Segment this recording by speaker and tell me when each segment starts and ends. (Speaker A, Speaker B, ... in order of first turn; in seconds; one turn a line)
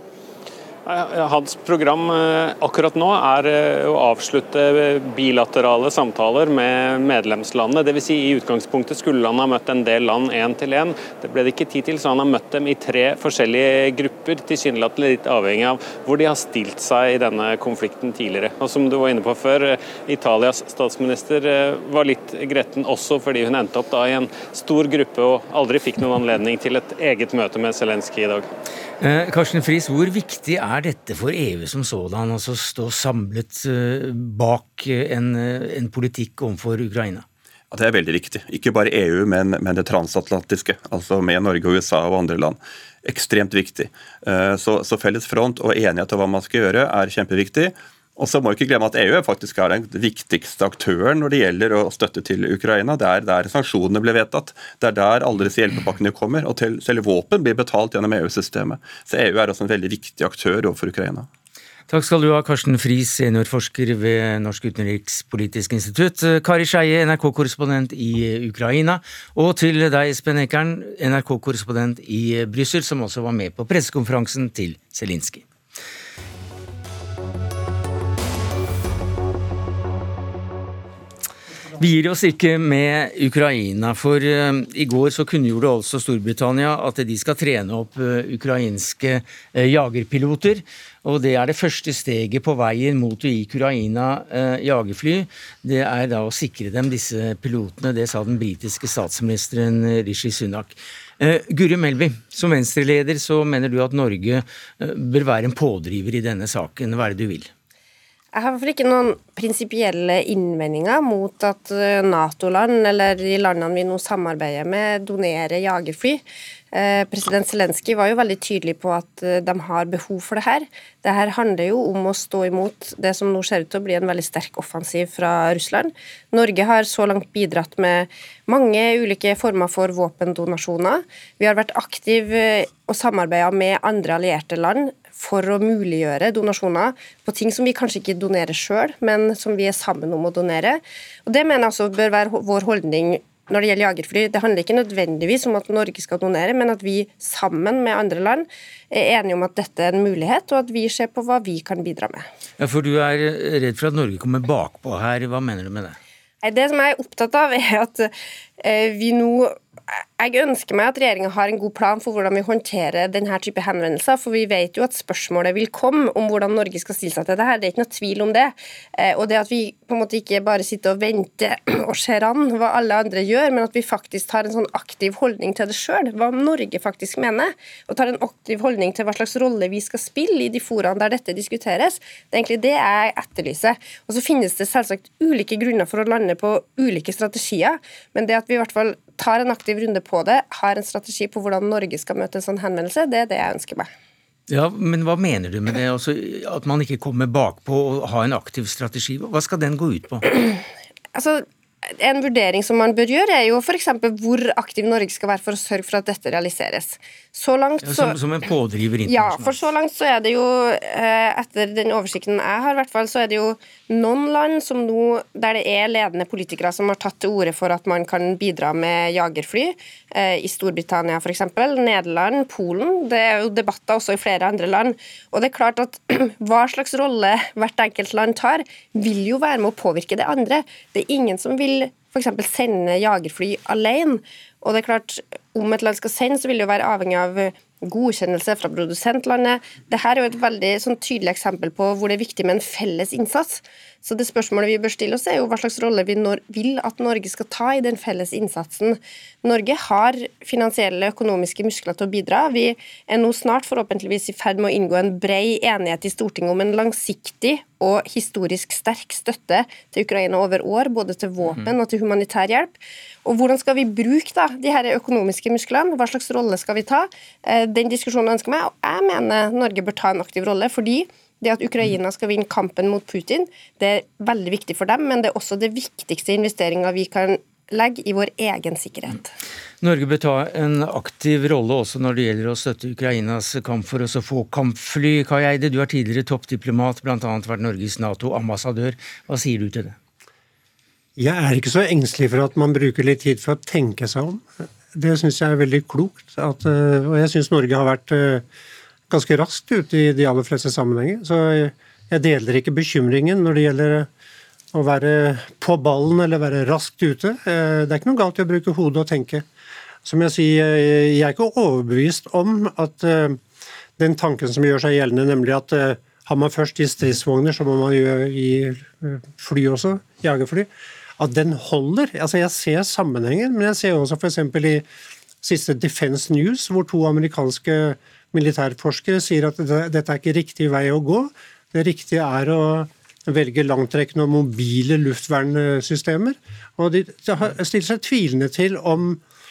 Speaker A: 0.8-28.5
Speaker B: 29.0-37.2
Speaker C: 37.7-61.3
Speaker B: 61.9-75.5
Speaker B: 81.8-107.5
Speaker D: 108.3-152.2
Speaker B: 152.6-156.0
Speaker D: 156.4-193.9
Speaker B: 194.5-200.3
Speaker D: 201.2-208.2
Speaker B: 207.8-209.7
Speaker D: 209.1-279.3
Speaker B: 279.8-290.0
Speaker E: 291.2-298.4
Speaker E: 299.1-304.1
Speaker E: 304.7-309.5
Speaker E: 310.1-313.4
Speaker E: 314.0-324.9
Speaker E: 325.4-339.2